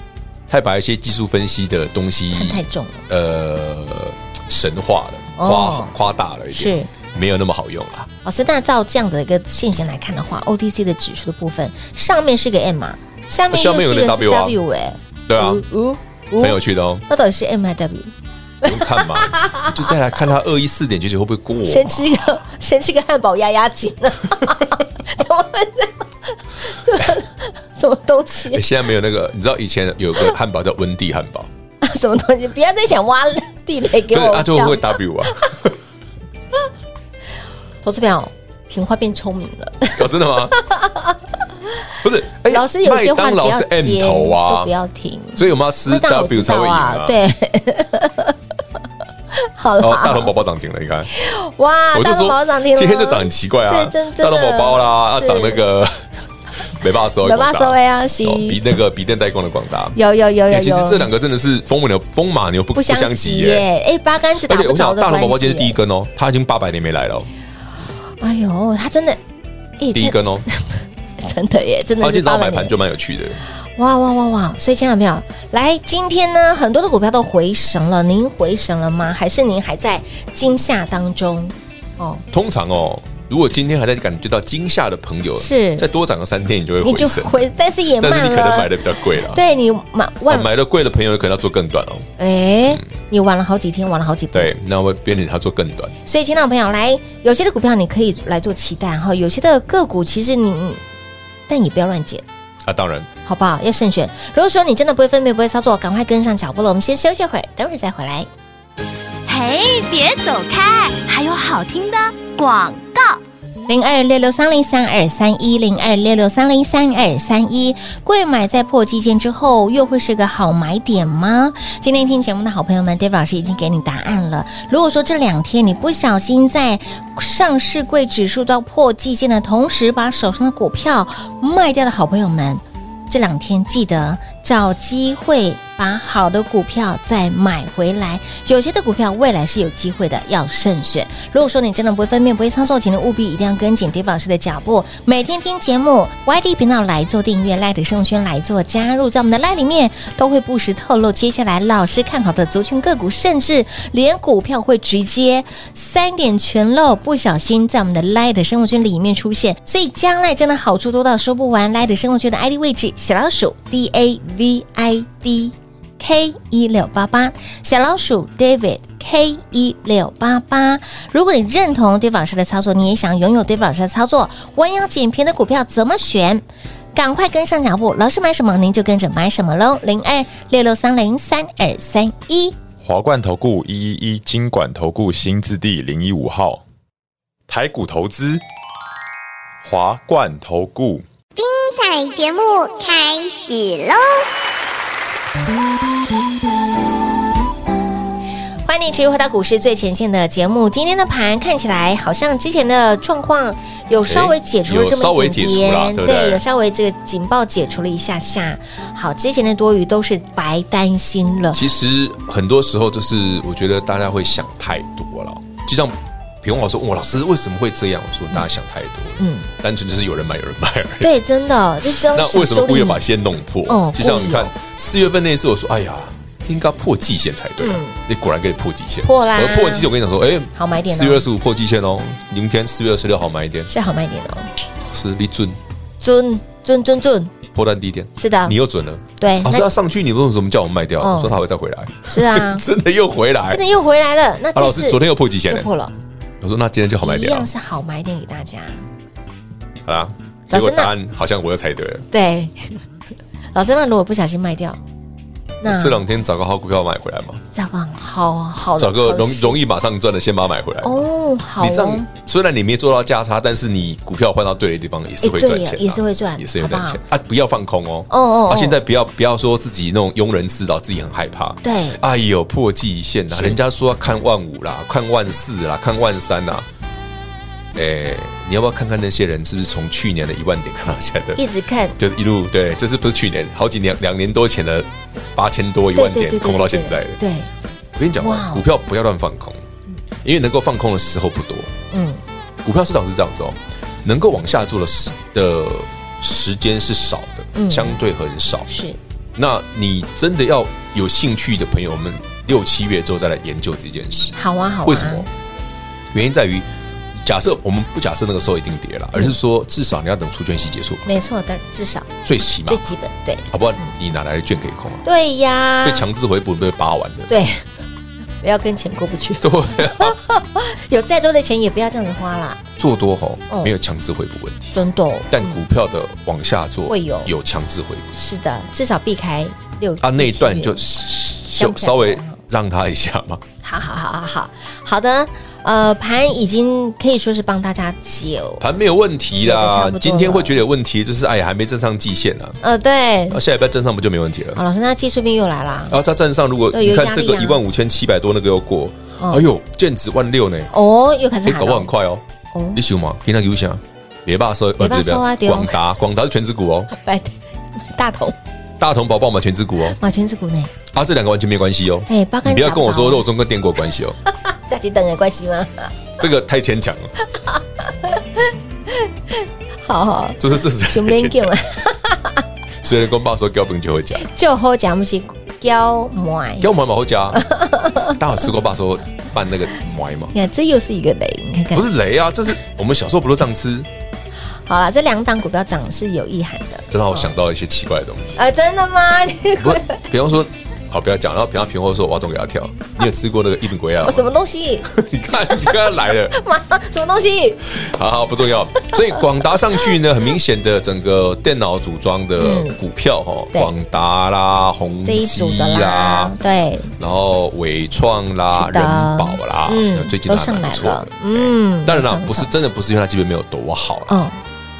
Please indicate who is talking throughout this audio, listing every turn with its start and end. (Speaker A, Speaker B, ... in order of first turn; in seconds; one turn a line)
Speaker A: 0.5-8.1
Speaker B: 2.3-3.0
Speaker B: 5.4-5.9
Speaker B: 6.5-6.9
Speaker B: 8.2-18.1
Speaker A: 13.5-14.6
Speaker A: 15.3-15.6
Speaker A: 16.4-17.0
Speaker B: 18.6-19.8
Speaker A: 18.6-22.4
Speaker B: 21.6-28.6
Speaker A: 28.5-31.5
Speaker B: 31.8-35.5
Speaker A: 34.1-35.8
Speaker B: 37.8-41.2
Speaker A: 40.0-40.5
Speaker A: 42.0-44.7
Speaker B: 42.5-48.4
Speaker A: 45.4-47.2
Speaker B: 49.3-50.3
Speaker A: 49.8-51.1
Speaker B: 51.1-55.6
Speaker A: 51.9-56.0
Speaker A: 56.6-60.0
Speaker B: 57.2-58.6
Speaker B: 59.9-61.1
Speaker A: 60.5-63.6
Speaker B: 62.7-65.8
Speaker A: 64.4-67.3
Speaker B: 68.2-69.2
Speaker B: 69.8-72.8
Speaker A: 69.9-70.5
Speaker A: 72.0-73.4
Speaker B: 73.8-82.2
Speaker A: 82.3-87.5
Speaker B: 85.4-85.8
Speaker B: 86.8-90.5
Speaker A: 88.0-89.4
Speaker A: 90.3-92.1
Speaker B: 92.2-94.5
Speaker A: 94.3-96.0
Speaker B: 96.0-100.8
Speaker B: 101.5-102.2
Speaker A: 102.6-103.1
Speaker B: 103.2-108.3
Speaker C: 109.2-113.2
Speaker B: 113.7-176.4
Speaker B: 176.9-182.6
Speaker D: 182.8-186.6
Speaker D: 187.5-188.4
Speaker D: 189.6-191.0
Speaker E: 191.3-194.2
Speaker B: 198.6-211.6
Speaker A: 204.1-206.4
Speaker A: 211.5-221.1
Speaker B: 219.2-219.5
Speaker B: 221.0-223.0
Speaker A: 221.8-233.7
Speaker B: 223.7-224.5
Speaker B: 227.6-227.9
Speaker B: 229.0-229.9
Speaker B: 230.5-231.2
Speaker B: 233.7-234.5
Speaker A: 234.8-235.6
Speaker B: 236.0-237.3
Speaker A: 237.5-243.6
Speaker B: 238.2-238.6
Speaker B: 239.2-239.7
Speaker B: 241.0-241.4
Speaker B: 242.1-242.6
Speaker B: 243.5-245.9
Speaker A: 244.5-245.7
Speaker A: 246.4-247.5
Speaker B: 247.0-248.8
Speaker A: 249.8-252.1
Speaker B: 250.5-250.9
Speaker B: 252.1-252.8
Speaker B: 253.5-254.8
Speaker B: 255.6-256.0
Speaker A: 255.6-257.4
Speaker B: 257.5-259.6
Speaker A: 258.8-261.1
Speaker B: 260.8-262.1
Speaker A: 261.6-276.7
Speaker B: 265.2-267.0
Speaker B: 268.1-268.8
Speaker B: 271.6-272.0
Speaker B: 273.3-273.6
Speaker A: 277.7-281.4
Speaker B: 281.4-281.9
Speaker A: 282.0-287.2
Speaker B: 285.9-287.5
Speaker A: 287.9-289.6
Speaker B: 288.2-288.6
Speaker A: 290.2-291.7
Speaker B: 291.9-292.2
Speaker A: 292.6-298.7
Speaker B: 297.5-298.0
Speaker B: 298.7-299.0
Speaker A: 299.4-305.3
Speaker B: 304.3-305.3
Speaker A: 306.1-306.7
Speaker A: 307.2-311.1
Speaker B: 311.1-312.1
Speaker A: 312.2-312.9
Speaker B: 312.7-313.9
Speaker A: 313.5-315.0
Speaker B: 315.0-316.0
Speaker A: 315.8-317.3
Speaker B: 317.3-317.6
Speaker B: 318.4-322.6
Speaker A: 319.4-320.2
Speaker A: 322.8-324.7
Speaker B: 324.7-325.6
Speaker A: 325.3-328.1
Speaker B: 326.9-327.3
Speaker B: 328.1-330.8
Speaker A: 330.0-333.4
Speaker B: 331.5-332.4
Speaker B: 333.6-338.6
Speaker A: 338.6-342.6
Speaker B: 339.3-340.6
Speaker B: 342.6-343.4
Speaker A: 343.3-344.6
Speaker B: 344.5-346.0
Speaker A: 345.9-350.7
Speaker B: 346.7-347.6
Speaker B: 349.2-349.5
Speaker B: 350.7-351.9
Speaker A: 351.4-352.2
Speaker B: 352.5-352.8
Speaker A: 352.7-356.9
Speaker B: 354.8-355.8
Speaker B: 356.9-358.4
Speaker A: 358.8-360.0
Speaker B: 359.9-360.7
Speaker A: 360.9-364.2
Speaker B: 362.1-363.2
Speaker B: 364.5-365.9
Speaker A: 366.2-367.1
Speaker B: 367.3-372.4
Speaker A: 370.4-371.6
Speaker A: 372.8-374.2
Speaker B: 374.2-376.7
Speaker A: 376.6-377.5
Speaker B: 377.3-378.2
Speaker A: 378.1-380.3
Speaker B: 380.3-381.9
Speaker A: 381.7-383.9
Speaker B: 384.6-387.3
Speaker A: 386.9-388.4
Speaker B: 388.4-390.0
Speaker A: 389.6-394.3
Speaker B: 394.0-394.9
Speaker A: 394.8-396.4
Speaker B: 395.5-395.8
Speaker B: 396.3-397.6
Speaker A: 397.6-406.3
Speaker B: 398.8-399.2
Speaker B: 402.4-402.8
Speaker B: 405.0-406.9
Speaker A: 407.0-414.2
Speaker B: 408.5-412.5
Speaker B: 414.1-414.4